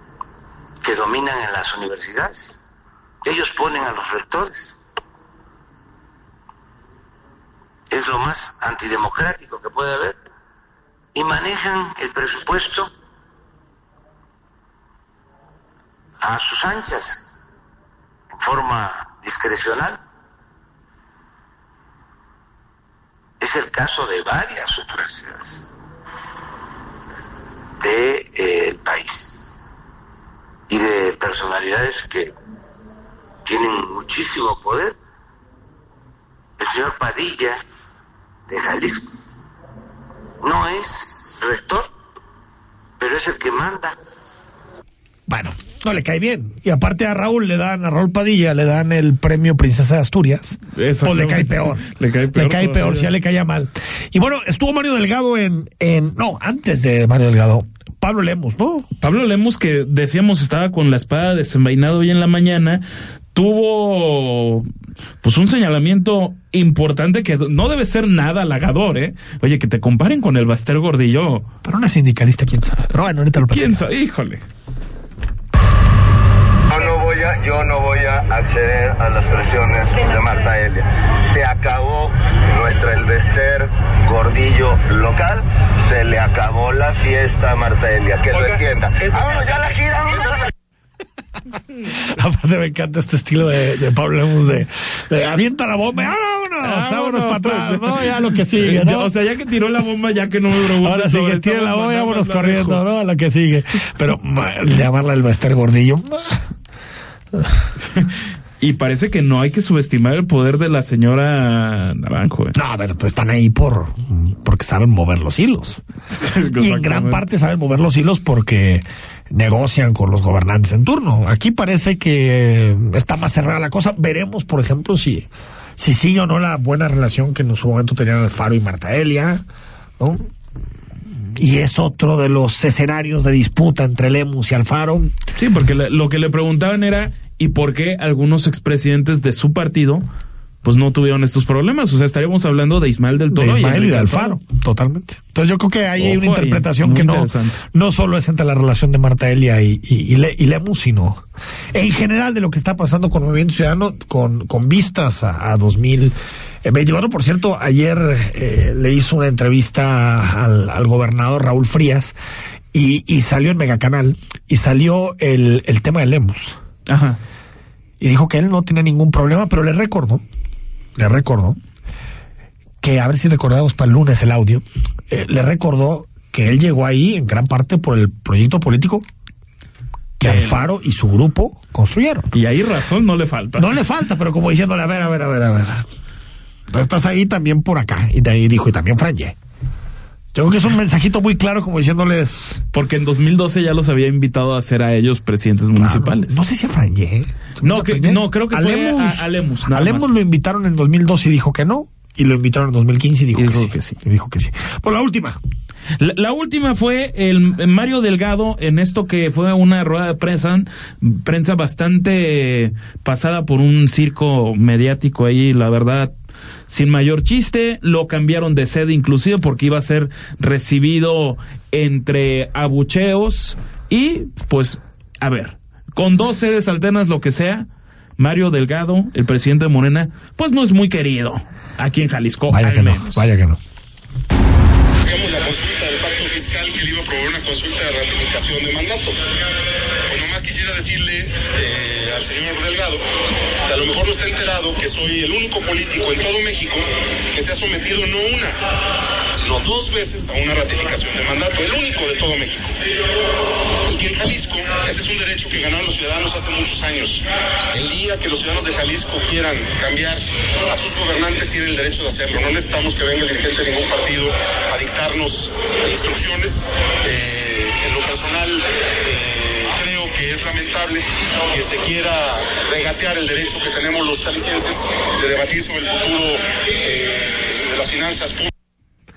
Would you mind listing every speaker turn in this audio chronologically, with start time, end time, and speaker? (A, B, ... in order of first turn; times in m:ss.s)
0:00.8-0:02.6 A
0:03.2-0:04.8 A
0:07.9-0:10.2 A
0:11.2-0:12.9 A
0:16.2-0:17.3 A
0:18.3-0:20.0 A
0:23.4-0:25.6 A
0:27.8-0:29.4 A
0:30.7-0:32.3 A
0:33.4-0:35.0 A
0:36.6-0:37.6 A
0:38.5-0:39.1 A
0:40.4-0:41.9 A
0:43.0-0:44.0 A
0:45.3-0:51.8 B
0:50.8-0:53.1 C
0:52.4-0:58.9 B
0:59.0-1:04.7 C
1:05.2-1:11.5 C
1:11.6-1:13.8 B
1:13.5-1:14.4 C
1:16.7-1:30.5 D
1:32.0-1:39.1 B
1:36.6-1:42.8 C
1:40.6-1:46.4 B
1:48.6-1:52.6 C
1:52.6-1:55.8 B
1:56.1-1:57.2 C
1:56.6-2:09.4 B
2:10.0-2:10.2 B
2:11.4-2:15.1 B
2:15.4-2:20.0 C
2:20.6-2:24.4 C
2:23.3-2:42.2 B
2:26.0-2:27.6 C
2:42.7-2:46.6 B
2:46.9-2:47.2 C
2:48.0-2:50.2 B
2:51.0-2:51.6 B
2:52.8-2:59.1 B
3:00.2-3:02.4 B
3:00.2-3:00.6 C
3:02.3-3:03.7 C
3:03.6-3:05.8 B
3:06.7-3:09.4 B
3:10.3-3:12.6 B
3:12.7-3:16.4 C
3:15.8-3:25.4 B
3:17.6-3:20.1 C
3:23.4-3:24.0 C
3:26.0-3:36.1 C
3:36.7-3:47.7 C
3:48.2-3:53.3 C
3:52.5-3:53.6 B
3:55.0-3:59.2 E
4:00.1-4:03.0 E
4:03.7-4:08.6 E
4:09.4-4:12.8 E
4:13.9-4:38.5 E